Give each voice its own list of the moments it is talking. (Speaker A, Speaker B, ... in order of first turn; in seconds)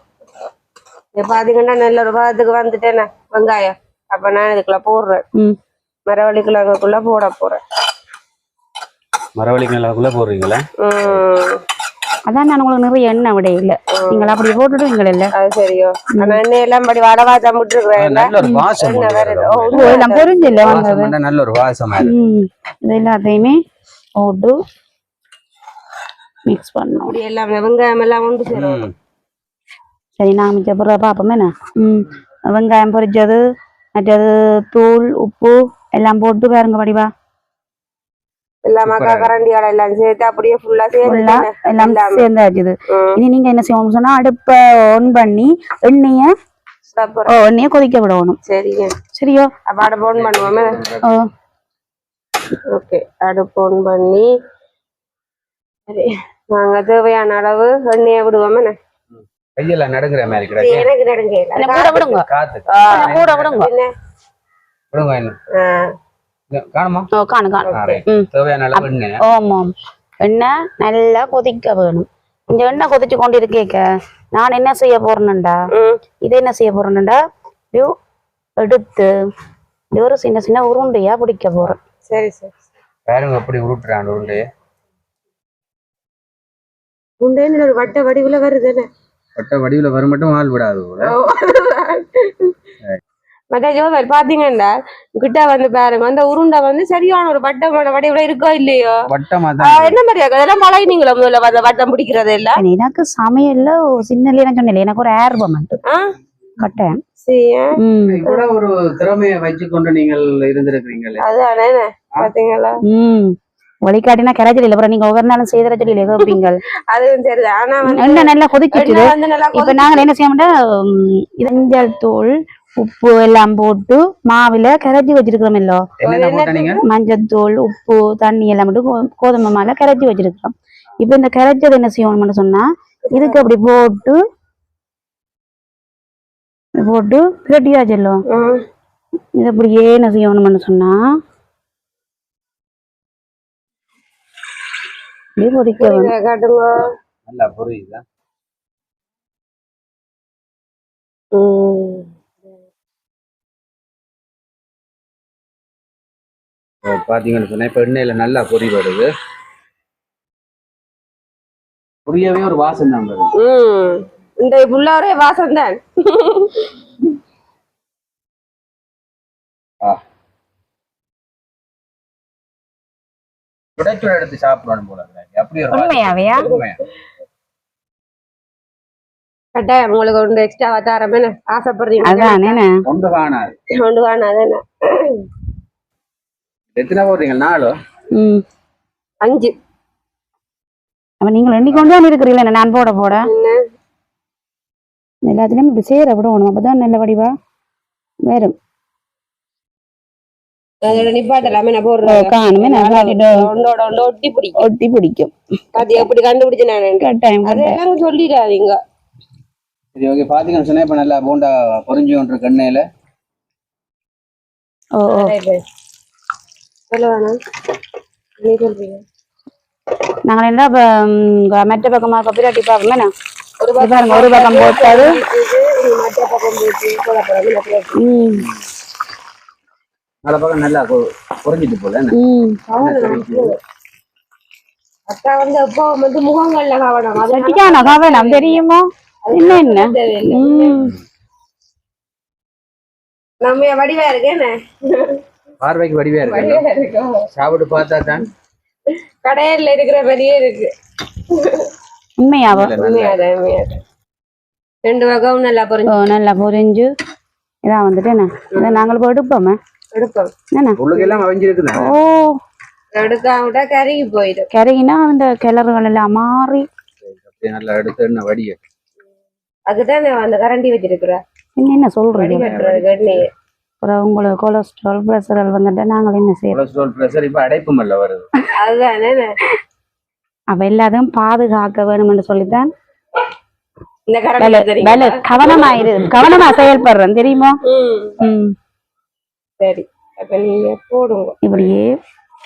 Speaker A: 1.1-5.2, 6.1-7.6, 10.8-11.6, 14.0-14.4, 15.3-20.8, 27.0-28.8, 38.6-42.3, 42.9-43.2, 46.9-47.4, 48.5-49.0, 49.7-50.8, 52.7-54.3, 55.9-58.8, 60.5-62.0, 62.7-63.9, 65.5-65.9, 67.7-68.0, 75.8-76.0, 82.1-82.5, 87.2-88.9, 91.0-92.5, 93.5-99.0, 99.6-102.6, 107.2-108.6, 111.2-112.8, 116.9-120.1, 126.0-126.8, 133.1-133.4, 138.3-138.6, 145.8-146.8, 151.3-152.1, 163.4-166.7, 179.5-182.6, 183.8-185.2, 189.2-189.5, 193.2-193.6, 200.8-204.6, 205.8-208.8, 215.1-215.6, 216.9-217.4, 218.4-219.0, 223.6-228.1, 232.7-233.6, 235.1-238.6, 239.2-240.8, 243.4-245.2, 246.2-247.3, 249.2-250.7, 251.3-251.7, 252.8-253.8, 254.8-256.0, 258.5-258.9, 259.9-260.3, 263.0-264.5, 269.7-271.2, 272.2-273.3, 278.6-279.3, 284.1-286.5, 287.6-288.1, 289.6-291.7
Speaker B: 9.4-11.2, 18.0-20.0, 20.6-22.1, 28.5-28.9, 38.9-39.3, 50.1-51.0, 59.5-60.9, 62.0-63.7, 64.9-65.4, 66.5-67.1, 67.7-69.2, 83.1-84.4, 89.4-91.1, 99.0-100.0, 108.1-111.2, 126.0-126.8, 147.3-148.0, 156.8-159.1, 162.1-163.3, 173.8-176.8, 182.9-183.5, 186.8-187.8, 209.9-212.8, 230.2-232.1, 232.8-233.5, 245.6-246.6, 247.3-248.3, 252.5-253.2, 260.8-261.9, 267.1-268.6, 272.4-273.2, 276.5-278.2
Speaker C: 12.3-15.3, 16.1-16.4, 19.8-21.1, 22.0-23.6, 24.2-24.5, 26.5-27.1, 30.2-33.4, 34.0-37.1, 41.0-46.3, 47.3-48.4, 49.1-49.5, 61.5-62.2, 62.9-63.7, 67.1-69.7, 70.2-75.6, 76.2-77.2, 78.6-79.1, 79.9-81.8, 102.6-105.8, 106.6-107.0, 107.8-108.2, 112.9-116.6, 117.9-125.8, 126.8-134.2, 136.8-138.2, 139.4-141.0, 145.4-146.1, 175.7-176.5, 182.0-182.7, 188.1-188.4, 191.2-193.3, 195.2-197.3, 198.3-198.6, 202.1-203.4, 204.6-205.3, 207.0-207.8, 215.0-215.3, 220.2-223.1, 223.8-225.2, 228.0-228.4, 232.1-232.6, 237.2-240.9, 252.2-252.7, 255.9-256.9, 257.6-259.6, 260.5-260.8, 261.8-262.3, 264.5-266.6, 271.6-272.5, 273.8-276.6, 280.5-282.7, 284.4-287.6, 288.2-288.5, 291.4-291.9